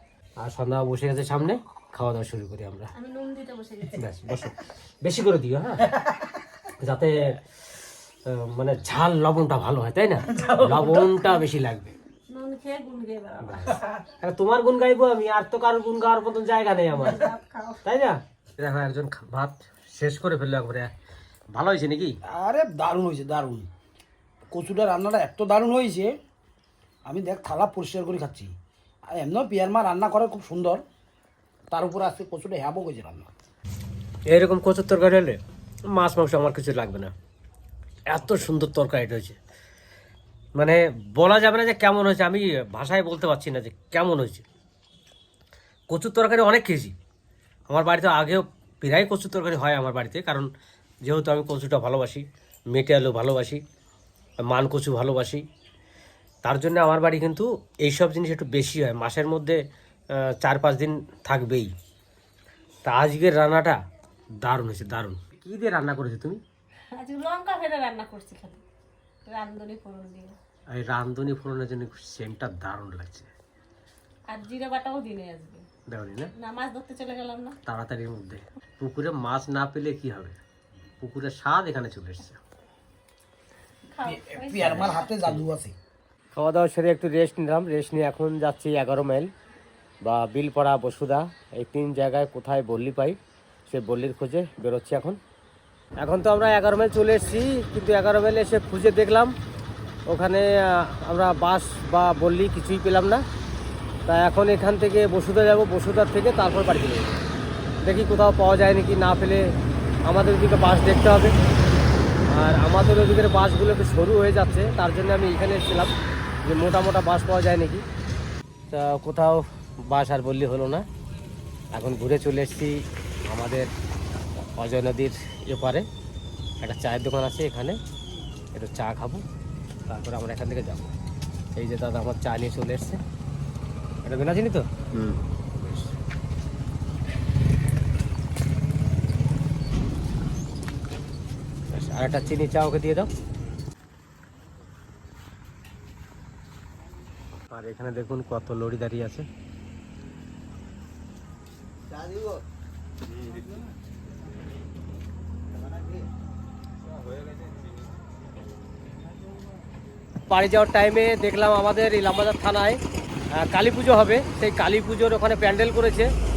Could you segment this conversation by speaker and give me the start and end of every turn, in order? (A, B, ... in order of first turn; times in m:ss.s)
0:00.4-0:02.9 A
0:02.9-0:04.0 B
0:03.9-0:06.0 A
0:06.8-0:07.4 A
0:08.2-0:11.9 A
0:10.4-0:11.0 B
0:12.3-0:13.8 B
0:13.4-0:17.3 A
0:16.9-0:17.8 B
0:17.8-0:20.9 A
0:21.5-0:22.2 A
0:22.2-0:23.7 C
0:24.5-0:26.2 C
0:27.0-0:28.5 C
0:29.1-0:30.8 C
0:31.7-0:33.3 C
0:34.3-0:37.1 A
0:38.1-0:39.4 A
0:40.6-0:44.4 A
0:45.9-0:46.9 A
0:47.7-0:50.5 A
0:51.0-0:53.6 A
0:54.4-0:55.4 A
0:56.4-1:01.7 A
1:02.8-1:03.8 A
1:04.4-1:06.4 A
1:06.9-1:08.6 B
1:09.2-1:10.4 B
1:10.7-1:13.3 A
1:14.3-1:15.6 B
1:15.9-1:16.3 A
1:16.4-1:17.6 B
1:17.6-1:20.4 A
1:21.0-1:22.4 A
1:23.9-1:25.1 B
1:24.0-1:25.7 C
1:24.6-1:25.4 A
1:26.3-1:29.3 A
1:30.0-1:33.2 A
1:33.7-1:35.2 A
1:36.0-1:39.3 A
1:40.1-1:43.2 A
1:44.1-1:47.1 A
1:47.8-1:49.5 A
1:50.0-1:51.4 A
1:52.3-1:55.9 A
1:56.4-1:57.8 A
1:58.7-2:00.8 A
2:01.7-2:03.7 A
2:04.6-2:05.8 A
2:06.6-2:07.8 A
2:08.5-2:09.2 A
2:09.9-2:10.9 A
2:11.6-2:13.0 A
2:14.0-2:15.9 A
2:21.7-2:23.1 A
2:27.5-2:29.2 A
2:40.3-2:42.8 A
2:43.3-2:46.1 A